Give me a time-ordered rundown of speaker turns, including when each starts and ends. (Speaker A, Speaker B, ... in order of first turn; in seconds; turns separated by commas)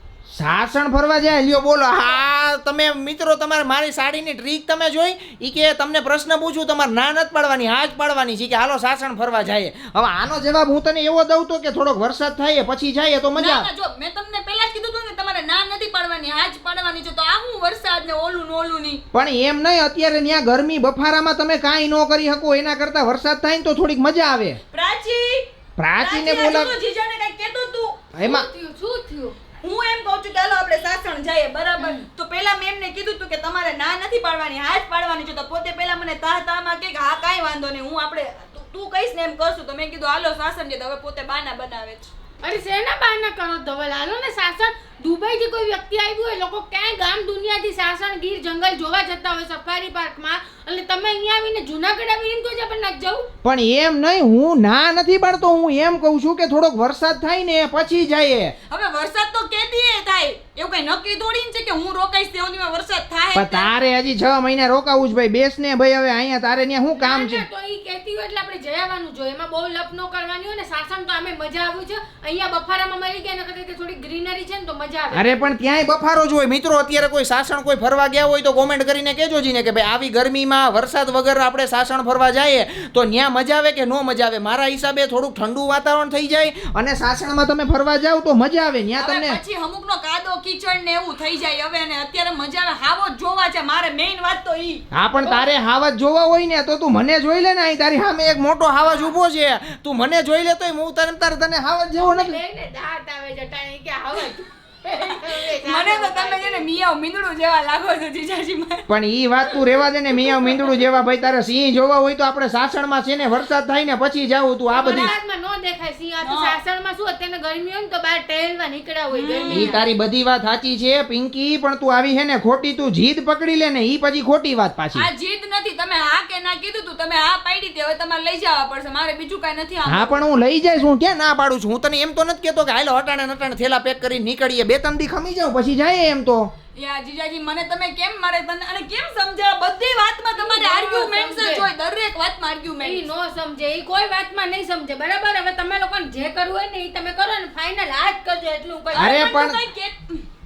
Speaker A: 0.3-13.7, Speaker B: 13.4-19.0, Speaker A: 19.1-24.6, Speaker B: 24.7-25.5, Speaker A: 25.8-26.7, Speaker B: 26.0-28.0, Speaker A: 28.1-28.5, Speaker C: 28.2-29.4, Speaker B: 29.6-42.1, Speaker C: 31.8-32.0, Speaker C: 42.4-53.3, Speaker A: 53.4-58.5, Speaker B: 58.7-63.7, Speaker A: 63.4-67.4, Speaker C: 67.0-75.3, Speaker A: 75.1-89.4, Speaker B: 89.0-94.8, Speaker A: 94.9-102.4, Speaker C: 95.2-95.5, Speaker C: 98.9-99.1, Speaker C: 102.0-106.7, Speaker B: 105.0-108.9, Speaker A: 108.9-115.1, Speaker B: 110.3-110.6, Speaker C: 114.7-119.8, Speaker B: 114.8-115.1, Speaker B: 116.2-116.6, Speaker B: 119.1-119.8, Speaker A: 119.5-125.1, Speaker B: 124.9-130.2, Speaker A: 129.9-136.5, Speaker B: 136.8-143.1, Speaker C: 140.3-141.7, Speaker C: 142.8-149.2, Speaker B: 148.9-150.2, Speaker A: 149.0-149.6